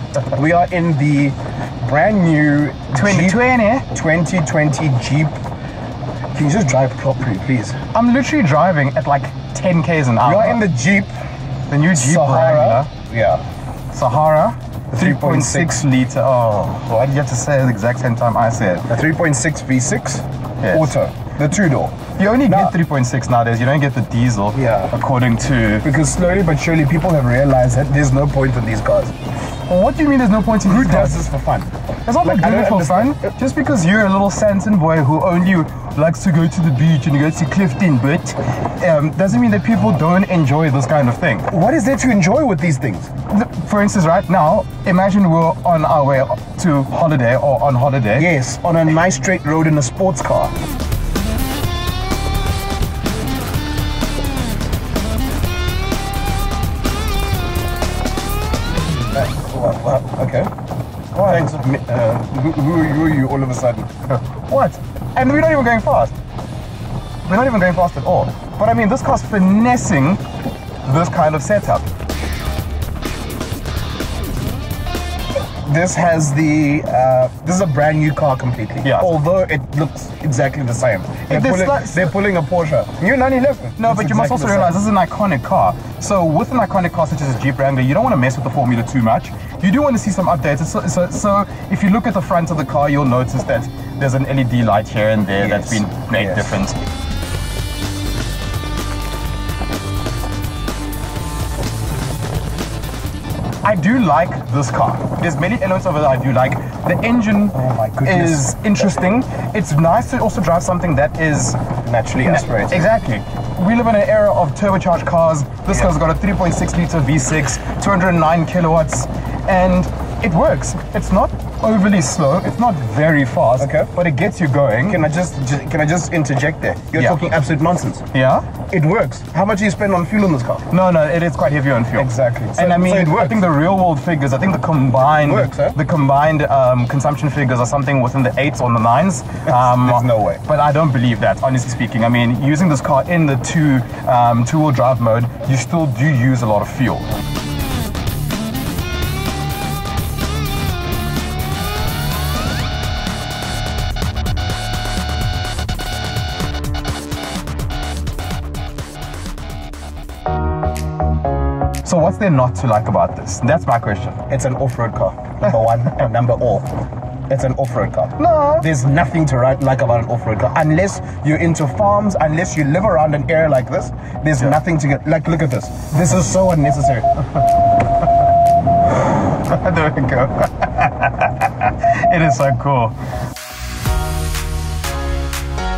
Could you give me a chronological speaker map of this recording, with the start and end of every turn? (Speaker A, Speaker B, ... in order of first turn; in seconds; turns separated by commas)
Speaker A: 0.2-3.4, Speaker B: 2.9-3.9, Speaker A: 3.9-5.4, Speaker A: 6.3-7.8, Speaker B: 7.9-10.6, Speaker A: 10.2-11.1, Speaker B: 11.7-12.9, Speaker A: 11.9-13.4, Speaker B: 13.9-18.9, Speaker A: 14.9-15.8, Speaker A: 18.9-22.7, Speaker B: 20.6-20.9, Speaker B: 22.1-25.9, Speaker A: 24.5-24.9, Speaker A: 25.8-29.1, Speaker B: 29.7-31.2, Speaker A: 30.6-31.7, Speaker B: 32.0-41.5, Speaker A: 32.2-33.3, Speaker A: 41.5-43.1, Speaker B: 43.3-48.3, Speaker A: 48.1-50.5, Speaker A: 59.1-60.5, Speaker B: 61.1-61.5, Speaker A: 61.2-63.9, Speaker B: 64.1-66.2, Speaker B: 67.2-70.2, Speaker B: 70.8-71.8, Speaker A: 75.6-84.7, Speaker B: 78.8-79.1, Speaker B: 81.3-82.1, Speaker B: 83.8-96.8, Speaker A: 95.4-96.6, Speaker B: 103.6-111.6, Speaker A: 107.5-108.5, Speaker A: 111.8-112.9, Speaker B: 112.2-125.0, Speaker A: 123.6-123.9, Speaker A: 124.8-128.0, Speaker B: 126.9-127.2, Speaker B: 128.1-128.5, Speaker A: 128.7-130.6, Speaker B: 130.7-147.1, Speaker A: 132.0-133.5, Speaker A: 135.2-135.8, Speaker A: 139.5-140.4, Speaker B: 161.8-164.2, Speaker A: 164.3-166.7, Speaker A: 167.3-177.1, Speaker B: 168.2-168.7, Speaker B: 179.2-182.9